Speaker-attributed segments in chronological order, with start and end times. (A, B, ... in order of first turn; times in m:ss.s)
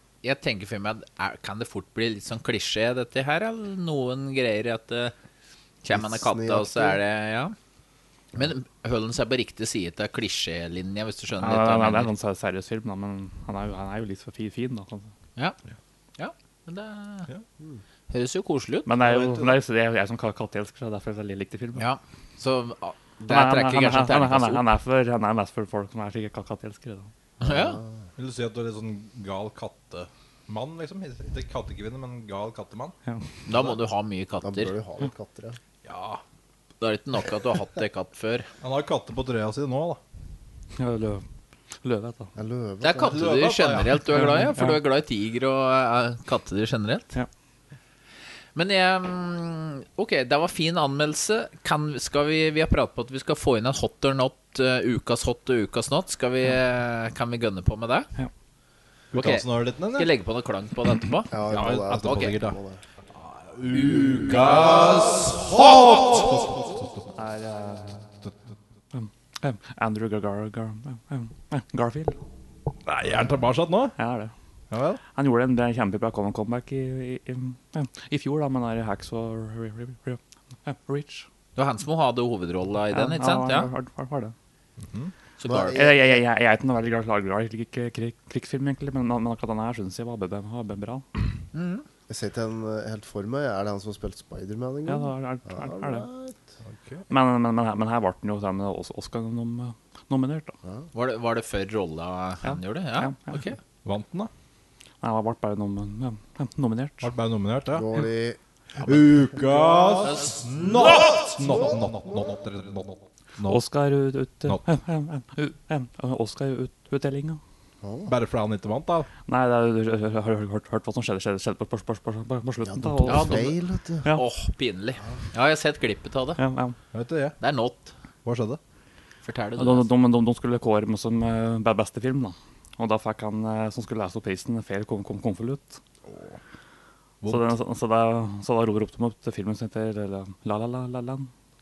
0:00.2-0:05.1 A
0:05.8-0:07.5 A
0:05.9-0:07.0 B
0:08.4-0:12.1 A
0:11.4-0:15.1 C
0:16.2-0:17.3 A
0:18.1-0:18.9 A
0:18.8-0:21.8 C
0:19.0-0:19.6 D
0:21.8-0:24.6 A
0:23.2-0:27.1 C
0:27.4-0:27.8 A
0:27.4-0:28.0 B
0:28.2-0:32.9 D
0:33.4-0:34.7 A
0:34.4-0:35.6 B
0:35.8-0:36.2 D
0:36.8-0:38.5 A
0:38.6-0:40.0 D
0:40.8-0:41.2 C
0:41.8-0:42.3 C
0:42.4-0:43.2 B
0:42.8-0:47.1 A
0:43.0-0:44.2 D
0:44.1-0:44.8 C
0:48.5-0:58.1 A
0:59.1-1:00.1 D
0:59.1-1:02.4 A
1:01.3-1:02.8 B
1:01.5-1:02.6 D
1:03.2-1:07.1 D
1:03.7-1:05.2 A
1:07.2-1:08.0 C
1:08.9-1:12.2 C
1:12.8-1:14.0 D
1:14.0-1:14.3 C
1:14.7-1:15.0 D
1:15.1-1:21.2 C
1:21.6-1:23.7 A
1:22.9-1:24.3 C
1:24.8-1:25.1 D
1:25.4-1:25.8 A
1:25.4-1:26.2 B
1:25.7-1:31.0 C
1:31.5-1:31.8 A
1:32.1-1:36.4 B
1:34.8-1:36.0 C
1:36.6-1:37.0 D
1:37.1-1:40.6 C
1:40.9-1:43.6 A
1:42.4-1:43.4 C
1:43.8-1:44.3 D
1:45.0-1:47.1 C
1:47.0-1:47.9 D
1:47.7-1:48.4 B
1:48.8-1:53.6 D
1:50.0-1:50.5 A
1:53.4-1:57.4 C
1:57.8-1:58.1 B
1:58.1-1:59.1 D
1:59.3-2:03.5 C
2:02.6-2:04.1 B
2:03.0-2:03.6 A
2:04.1-2:06.4 A
2:06.4-2:06.8 C
2:06.9-2:07.4 D
2:07.4-2:07.9 A
2:08.2-2:08.6 D
2:09.2-2:09.9 A
2:09.6-2:15.8 C
2:16.1-2:16.4 D
2:17.2-2:17.5 D
2:17.3-2:21.3 C